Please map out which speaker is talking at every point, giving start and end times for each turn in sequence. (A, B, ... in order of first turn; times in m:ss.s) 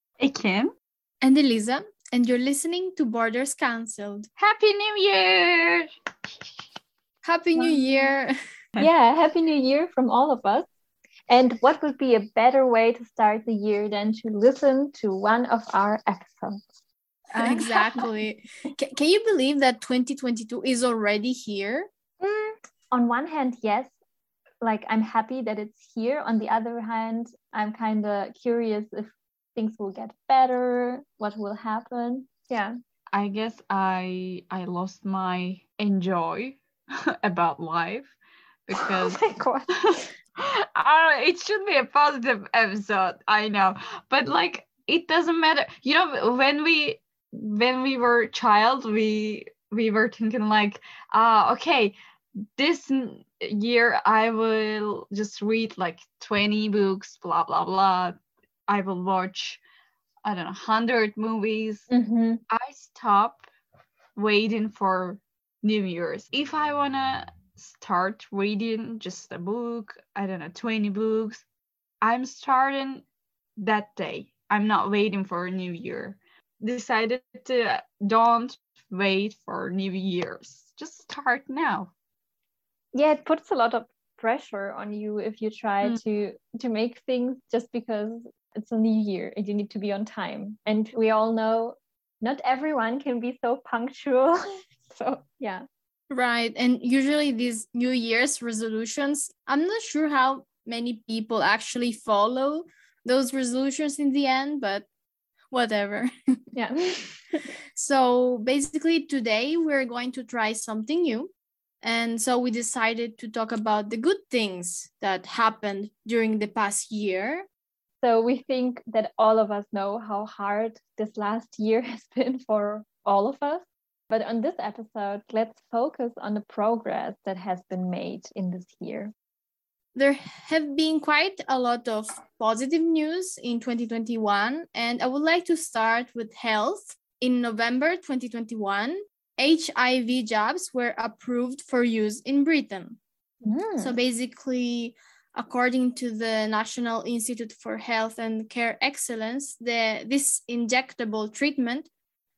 0:00.2-0:00.7 A
0:01.2-0:04.3 B
0:04.4-0:05.9 A
0:07.2-0:08.3 B
0:07.6-0:08.1 C
0:08.8-0:10.6 C
0:11.3-0:16.6 C
0:17.3-0:21.9 B
0:17.4-0:18.0 C
0:22.2-0:23.9 C
0:24.6-0:32.7 C
0:33.1-0:36.6 A
0:37.2-0:38.1 A
0:38.6-0:39.2 A
0:38.8-0:40.0 C
0:39.8-0:52.0 A
0:52.6-0:58.2 A
0:58.7-0:59.6 A
1:00.2-1:01.9 A
1:01.9-1:02.4 C
1:02.5-1:03.5 A
1:04.2-1:11.4 A
1:12.0-1:13.0 A
1:13.6-1:21.9 A
1:22.9-1:35.6 C
1:36.1-1:44.8 B
1:45.5-1:46.1 B
1:46.5-1:47.1 C
1:47.7-1:57.5 B
1:58.0-2:09.1 C
2:09.9-2:23.0 B
2:23.4-2:24.0 C
2:23.8-2:31.9 B